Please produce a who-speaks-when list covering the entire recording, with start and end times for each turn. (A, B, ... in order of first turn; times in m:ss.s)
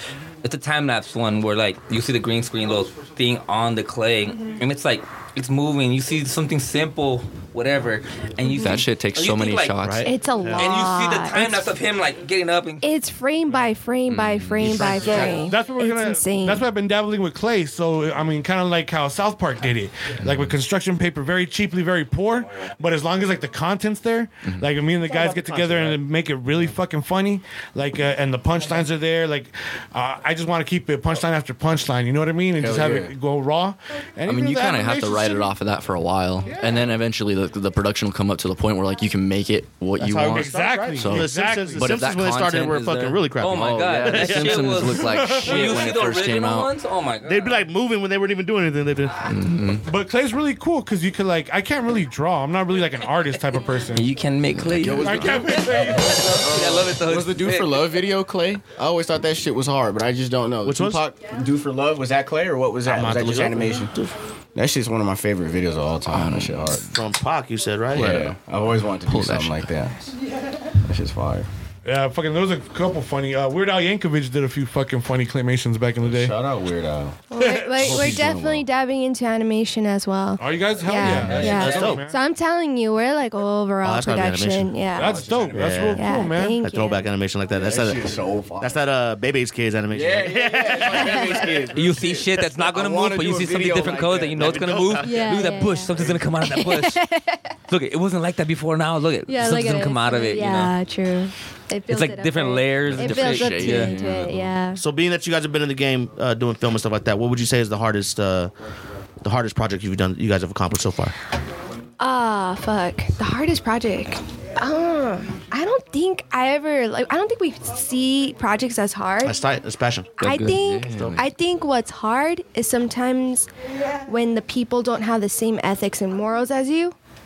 0:00.4-0:09.8 A
0:08.4-0:08.8 B
0:08.6-0:10.2 C
0:09.8-0:10.8 D
0:10.0-0:11.6 B
0:10.6-0:12.8 A
0:12.8-0:16.7 B
0:14.1-0:15.3 C
0:14.6-0:15.5 D
0:15.0-0:15.4 A
0:15.4-0:35.5 E
0:20.2-0:20.5 C
0:25.0-0:26.0 D
0:32.6-0:33.1 C
0:32.6-0:33.0 F
0:34.3-0:42.8 C
0:36.5-0:36.9 E
0:40.0-0:44.7 D
0:40.3-0:41.9 E
0:42.3-0:47.6 A
0:43.5-0:46.7 C
0:45.0-0:46.0 E
0:47.2-0:49.3 D
0:49.2-0:49.9 C
0:49.8-0:54.1 E
0:53.9-0:57.8 A
0:54.6-0:55.3 C
0:54.8-0:55.7 F
0:55.0-0:56.5 E
0:56.3-1:03.9 F
0:56.4-0:56.9 C
1:00.6-1:01.0 D
1:02.9-1:03.4 E
1:03.0-1:04.2 D
1:04.6-1:06.9 F
1:06.1-1:06.9 C
1:06.8-1:08.2 D
1:07.9-1:10.1 F
1:08.0-1:08.4 C
1:09.1-1:09.7 C
1:10.8-1:11.5 F
1:11.8-1:16.4 E
1:16.0-1:17.2 F
1:17.3-1:25.3 B
1:17.4-1:18.0 E
1:17.8-1:18.7 F
1:20.4-1:22.2 E
1:21.0-1:22.0 F
1:21.4-1:22.0 D
1:23.8-1:24.8 D
1:25.0-1:26.0 F
1:25.0-1:26.6 E
1:25.4-1:26.1 D
1:25.9-1:27.0 B
1:26.6-1:28.0 D
1:27.5-1:28.8 F
1:28.6-1:31.7 D
1:29.9-1:34.7 F
1:30.9-1:31.5 B
1:31.7-1:37.0 A
1:34.4-1:35.4 D
1:35.0-1:37.6 B
1:37.7-1:40.7 A
1:39.3-1:44.8 B
1:41.9-1:43.9 A
1:42.9-1:44.6 C
1:44.8-1:48.5 D
1:49.2-1:51.1 D
1:52.0-1:59.4 B
1:59.2-2:00.2 D
2:00.2-2:03.5 B
2:00.2-2:00.6 A
2:00.2-2:01.3 C
2:00.9-2:01.3 D
2:04.1-2:07.0 B